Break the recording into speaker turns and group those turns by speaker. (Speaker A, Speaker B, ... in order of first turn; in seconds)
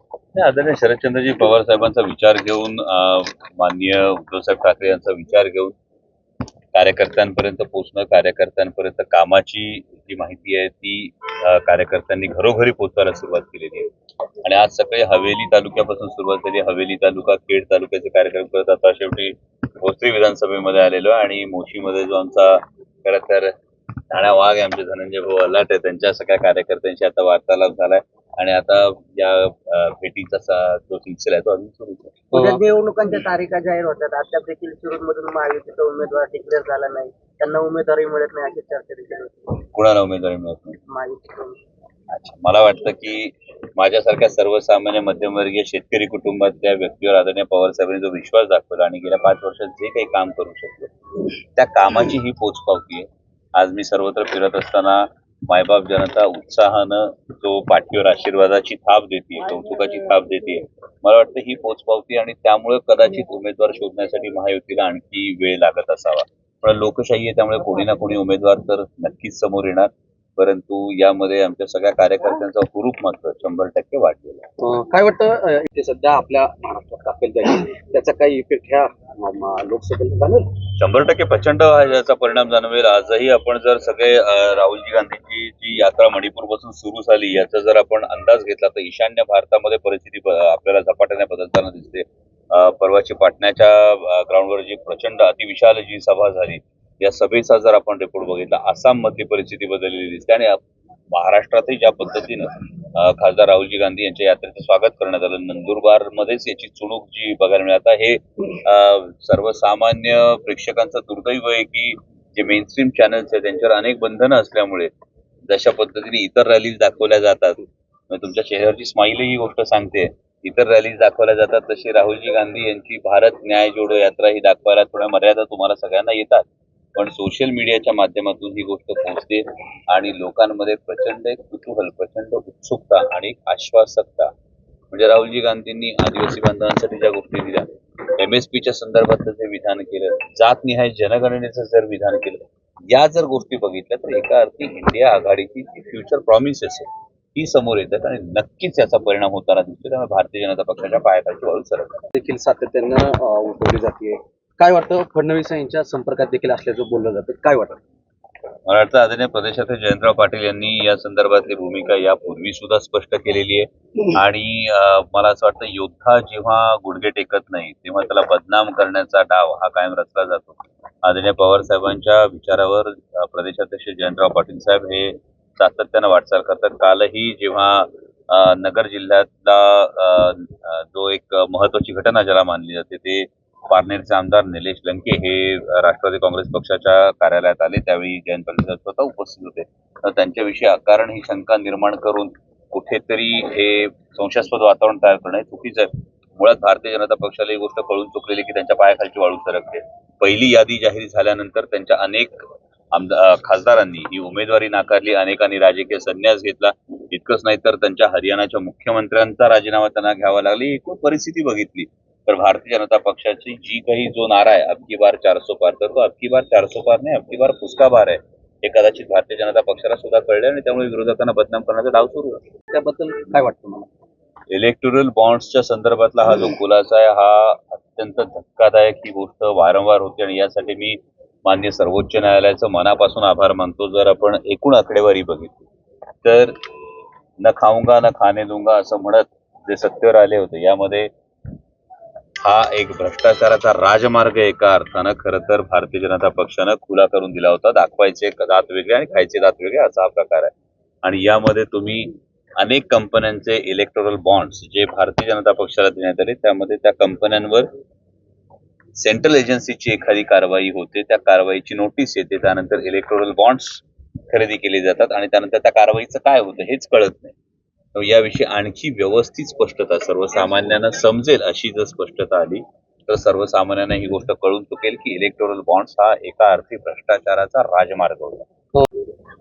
Speaker A: 0.3-5.7, 6.7-13.9, 14.4-23.5, 24.1-32.2, 39.7-40.8, 42.1-50.9, 51.6-74.5, 80.8-100.6, 101.1-114.9, 115.5-134.3, 134.9-152.0, 158.7-222.4, 224.5-235.7, 236.2-236.6, 237.4-241.1, 242.4-250.5, 251.0-257.7, 259.0-267.4, 267.9-278.5
Speaker B: 32.3-32.6, 74.6-80.6, 152.2-157.8, 222.7-223.9
Speaker C: 32.4-39.3, 40.9-41.6